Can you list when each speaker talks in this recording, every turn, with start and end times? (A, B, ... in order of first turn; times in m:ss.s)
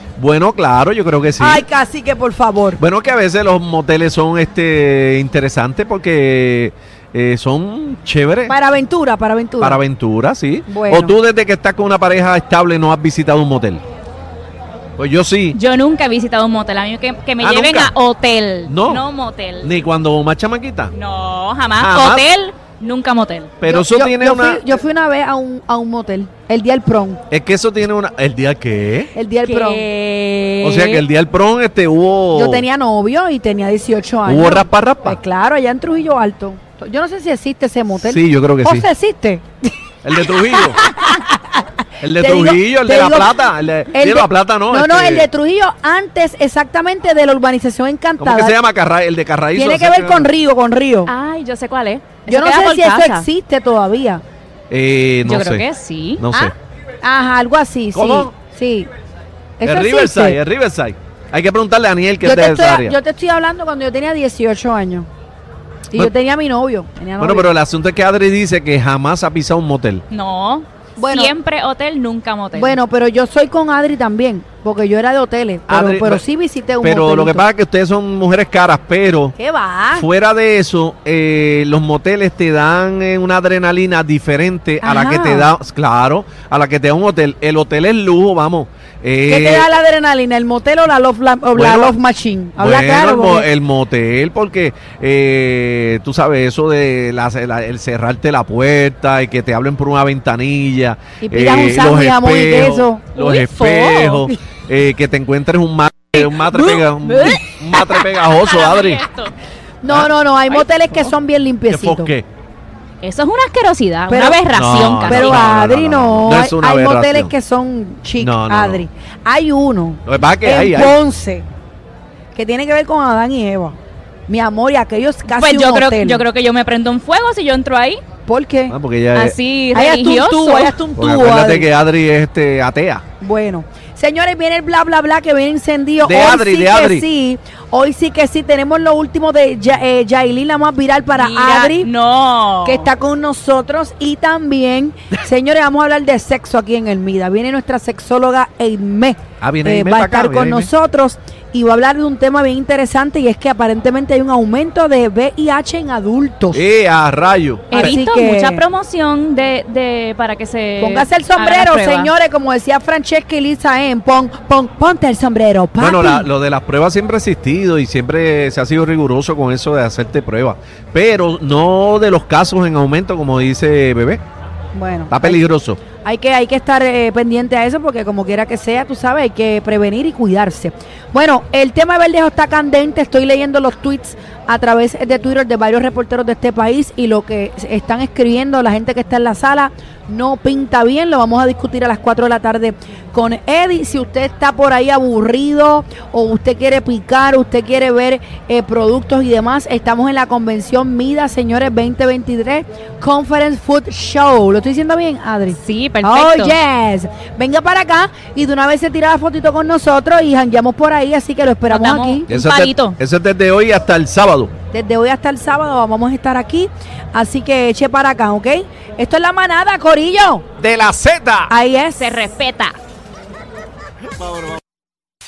0:00.2-0:01.6 A
0:01.4-0:02.8 B
0:02.8-0:08.5 A
0:08.5-0:09.8 B
0:09.6-0:13.8 A
0:10.7-0:11.1 B
0:15.0-0:15.6 A
0:15.5-0:19.7 C
0:17.4-0:17.9 A
0:18.7-0:19.0 A
0:19.6-0:20.9 A
0:20.9-0:23.5 C
0:21.8-0:22.2 A
0:23.6-0:24.6 A
0:23.6-0:27.2 B
0:27.3-0:29.1 A
0:29.1-0:29.8 B
0:29.4-0:31.0 C
0:30.6-0:32.6 A
0:32.3-0:39.4 B
0:34.2-0:35.2 A
0:38.0-0:38.9 A
0:40.0-0:40.8 A
0:40.2-0:43.3 B
0:42.0-0:45.3 A
0:43.9-0:48.6 B
0:48.2-0:50.3 A
0:49.5-0:51.1 B
0:51.0-0:53.2 C
0:52.3-0:54.2 B
0:54.7-0:55.6 A
0:55.2-0:56.2 C
0:56.2-0:56.5 A
0:56.3-0:58.9 B
0:57.9-0:58.3 A
0:59.6-1:00.4 B
0:59.6-1:03.0 A
1:02.2-1:05.1 B
1:05.9-1:07.5 B
1:07.2-1:10.0 A
1:10.1-1:12.8 C
1:11.0-1:11.3 B
1:12.5-1:17.4 B
1:15.7-1:16.2 A
1:16.8-1:19.4 A
1:19.4-1:20.0 B
1:19.9-1:29.7 A
1:24.8-1:25.5 B
1:29.3-1:33.5 B
1:31.5-1:31.9 A
1:32.6-1:49.0 A
1:41.2-1:43.1 B
1:43.1-1:44.3 C
1:46.2-1:48.0 B
1:47.0-1:47.4 C
1:48.2-1:49.3 C
1:49.8-1:52.1 B
1:49.9-1:51.1 A
1:51.7-1:52.2 A
1:53.0-1:55.5 C
1:54.1-1:54.5 B
1:54.5-1:57.3 A
1:55.0-2:01.4 B
1:58.2-1:58.8 A
2:00.0-2:01.0 A
2:02.3-2:03.8 B
2:04.3-2:06.2 B
2:05.2-2:08.0 C
2:08.3-2:08.8 B
2:08.7-2:09.4 A
2:09.1-2:10.8 C
2:09.7-2:11.7 B
2:11.0-2:13.0 A
2:13.2-2:21.9 B
2:16.0-2:17.0 A
2:21.1-2:22.9 C
2:22.6-2:36.6 B
2:29.4-2:30.7 A
2:36.5-2:38.0 A
2:37.7-2:42.1 C
2:37.7-2:38.6 B
2:40.8-2:46.3 B
2:45.8-2:54.2 A
2:54.7-2:55.4 B
2:55.1-2:55.8 A
2:55.9-3:32.3 B
3:25.5-3:26.5 C
3:31.7-3:33.0 C
3:32.3-3:34.5 A
3:34.7-3:40.4 B
3:40.6-3:41.5 A
3:41.5-3:42.1 B
3:41.9-3:42.7 C
3:44.1-3:44.6 A